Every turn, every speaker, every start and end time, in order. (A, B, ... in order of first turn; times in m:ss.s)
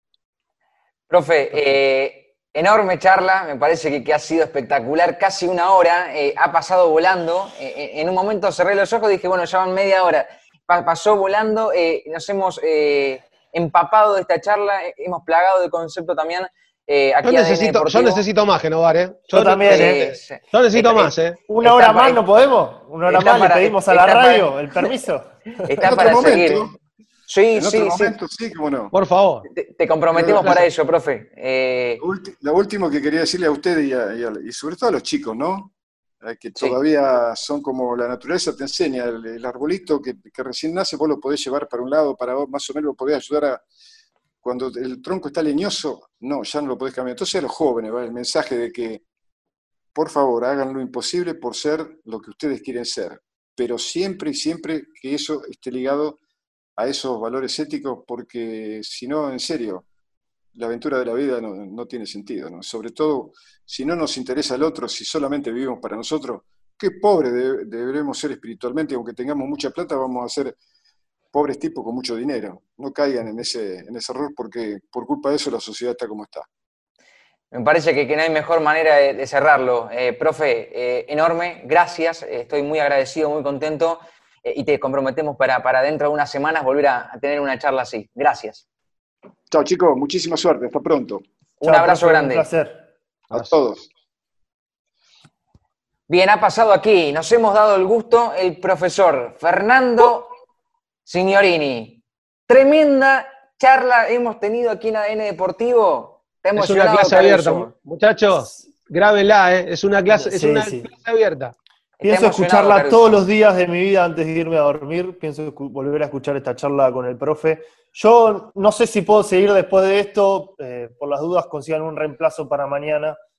0:01.1-0:18.2 A
0:17.2-0:20.0 B
0:19.3-0:20.1 C
0:19.6-0:22.2 A
0:20.5-0:21.4 B
0:21.5-0:25.8 C
0:23.1-0:25.0 A
0:25.6-0:26.7 A
0:25.8-0:26.8 D
0:27.3-0:28.1 A
0:27.6-0:28.9 D
0:28.9-0:29.5 B
0:29.4-0:32.0 A
0:30.1-0:30.6 D
0:32.0-0:43.6 D
0:44.4-0:49.0 D
0:49.9-0:56.2 D
0:56.8-0:59.9 D
1:00.6-1:10.6 D
1:11.3-1:16.5 D
1:17.5-1:28.6 A
1:29.5-1:31.2 D
1:31.6-1:32.5 A
1:31.6-1:32.8 C
1:33.3-1:33.9 D
1:36.1-1:40.3 A
1:41.0-1:47.7 A
1:46.6-1:51.6 B
1:50.1-1:50.8 C
1:52.0-1:53.2 A
1:52.0-2:03.2 C